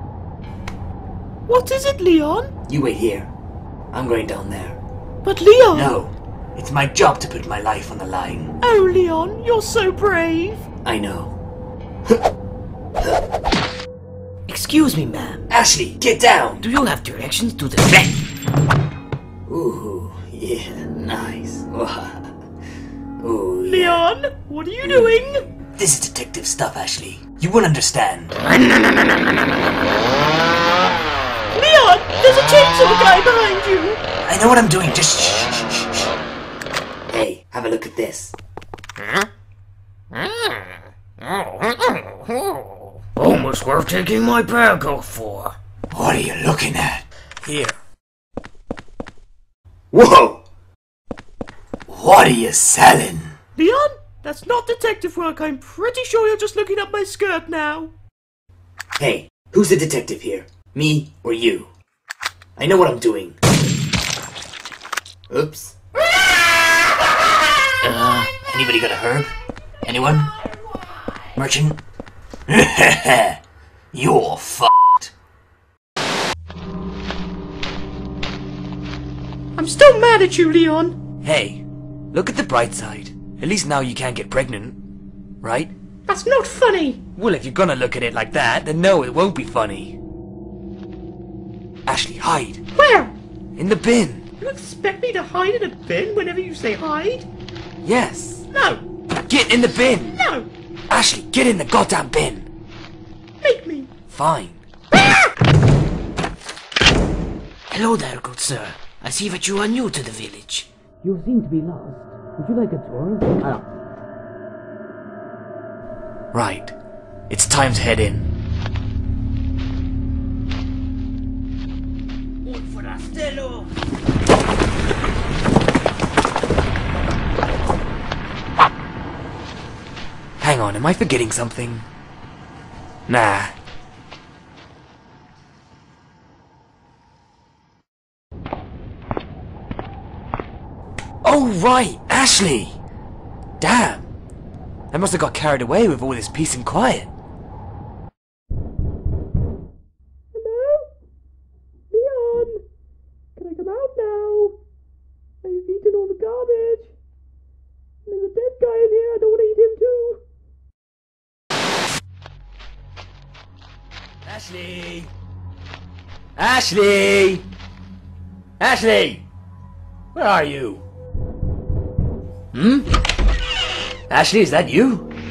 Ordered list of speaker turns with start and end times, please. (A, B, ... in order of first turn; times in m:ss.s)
0:01.5-0:02.5 A
0:02.7-0:03.3 B
0:03.9-0:04.8 B
0:05.2-0:06.0 A
0:05.7-0:08.5 B
0:08.6-0:10.6 A
0:10.8-0:11.4 B
0:14.5-0:15.4 C
0:15.5-0:16.7 B
0:16.6-0:18.1 C
0:19.5-0:22.3 B
0:23.2-0:24.0 B
0:23.6-0:25.4 A
0:25.8-0:28.4 B
0:31.5-0:34.0 A
0:34.2-0:36.1 B
0:37.1-0:38.4 B
0:40.1-0:40.6 C
0:41.2-0:42.6 C
0:43.2-0:45.6 C
0:45.9-0:47.1 B
0:47.4-0:47.8 C
0:49.9-0:50.4 B
0:51.9-0:53.4 B
0:53.6-0:57.9 A
0:59.0-1:01.7 B
1:02.6-1:03.4 B
1:05.3-1:05.8 B
1:07.8-1:10.4 B
1:11.4-1:11.8 B
1:12.5-1:13.4 B
1:13.9-1:15.1 B
1:19.6-1:21.0 A
1:21.2-1:24.8 B
1:25.4-1:25.7 B
1:26.1-1:27.0 A
1:27.2-1:30.0 B
1:31.9-1:32.6 B
1:32.7-1:33.2 A
1:33.6-1:34.2 B
1:34.4-1:37.3 A
1:37.8-1:38.5 B
1:38.5-1:38.8 A
1:39.3-1:40.2 B
1:40.2-1:40.5 A
1:40.9-1:42.5 B
1:43.4-1:43.9 A
1:44.1-1:44.6 B
1:47.7-1:53.6 C
1:56.3-1:56.7 B
1:57.3-1:58.3 B
2:02.5-2:03.6 C
2:10.4-2:11.9 B
2:13.1-2:13.5 B
2:21.2-2:22.8 B
2:23.6-2:24.1 B
2:24.9-2:27.1 B
2:30.3-2:30.9 A
2:31.9-2:32.6 A
2:33.4-2:34.6 A
2:35.4-2:36.9 A
2:38.1-2:40.2 A
2:44.2-2:45.1 B
2:46.4-2:47.5 B
2:48.6-2:49.2 B
2:50.1-2:50.8 B
2:52.5-2:52.9 B
2:54.1-2:55.1 B